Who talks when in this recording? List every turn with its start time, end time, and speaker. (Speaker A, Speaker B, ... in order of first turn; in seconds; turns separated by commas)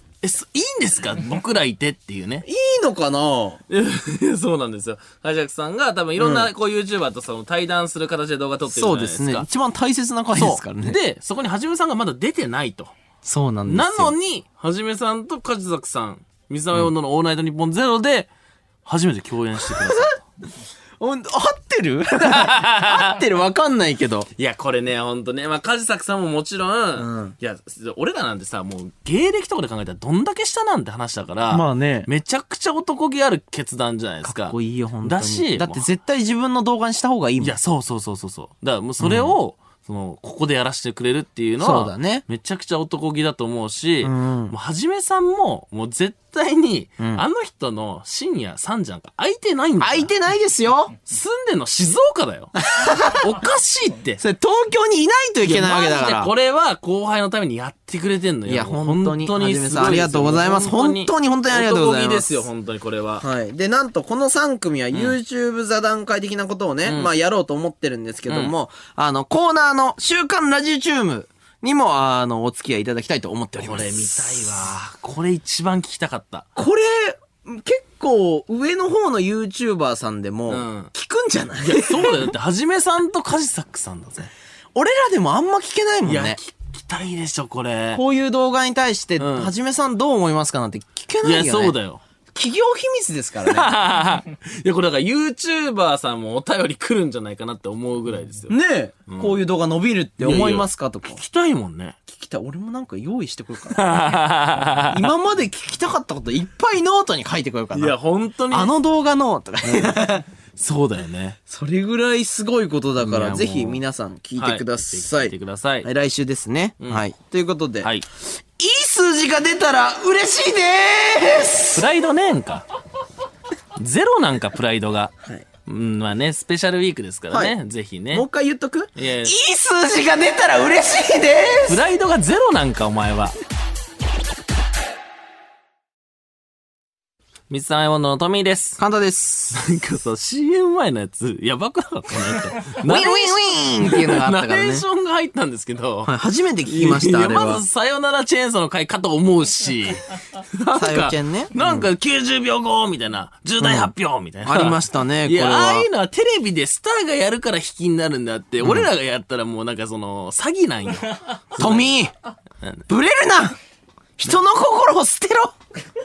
Speaker A: 0.2-2.5, Speaker B: 2.4-3.6, Speaker A: 3.7-9.5, Speaker B: 6.2-6.5, Speaker B: 8.7-11.0, Speaker A: 10.3-12.9, Speaker B: 13.2-14.1, Speaker A: 13.7-18.3, Speaker A: 18.8-20.2, Speaker B: 19.6-20.1, Speaker B: 21.0-24.3, Speaker A: 22.2-23.2, Speaker A: 24.4-35.9, Speaker B: 27.0-27.3, Speaker B: 31.5-32.1, Speaker B: 34.2-37.5, Speaker A: 37.4-50.1, Speaker B: 39.0-39.3, Speaker B: 41.6-42.2, Speaker B: 44.0-44.5, Speaker B: 47.0-47.2, Speaker B: 49.8-51.0, Speaker A: 51.0-54.2, Speaker B: 52.6-53.2, Speaker B: 54.2-56.3, Speaker A: 55.4-63.2, Speaker B: 58.5-62.4, Speaker B: 63.2-74.6, Speaker A: 66.8-67.1, Speaker A: 68.3-68.5, Speaker A: 73.6-76.5, Speaker B: 76.5-82.3, Speaker A: 80.5-80.9, Speaker A: 81.6-84.3, Speaker B: 84.7-86.4, Speaker A: 86.0-88.0, Speaker B: 87.9-91.8, Speaker A: 89.2-89.5, Speaker A: 91.2-92.0, Speaker B: 92.3-93.7, Speaker A: 93.5-98.5, Speaker B: 98.5-101.2, Speaker A: 99.1-99.4, Speaker A: 100.2-102.0, Speaker B: 102.1-103.9, Speaker A: 103.7-105.1, Speaker B: 104.9-107.9, Speaker A: 107.7-108.7, Speaker B: 108.5-110.2, Speaker A: 109.6-111.4, Speaker B: 111.5-117.9, Speaker A: 113.0-113.8, Speaker A: 114.4-115.9, Speaker B: 118.6-121.8, Speaker A: 121.7-122.6, Speaker A: 123.8-125.1, Speaker A: 125.7-128.2, Speaker B: 128.1-131.8, Speaker A: 128.9-129.3, Speaker A: 131.6-133.3, Speaker A: 137.5-138.8, Speaker B: 138.8-139.6, Speaker A: 139.5-146.1, Speaker B: 142.8-144.8, Speaker B: 146.1-147.6, Speaker A: 146.7-150.0, Speaker A: 150.5-161.9, Speaker B: 150.7-151.9, Speaker B: 153.6-153.9, Speaker B: 154.4-155.9, Speaker B: 158.6-158.9, Speaker B: 161.6-162.1, Speaker B: 162.9-163.6, Speaker B: 164.2-165.5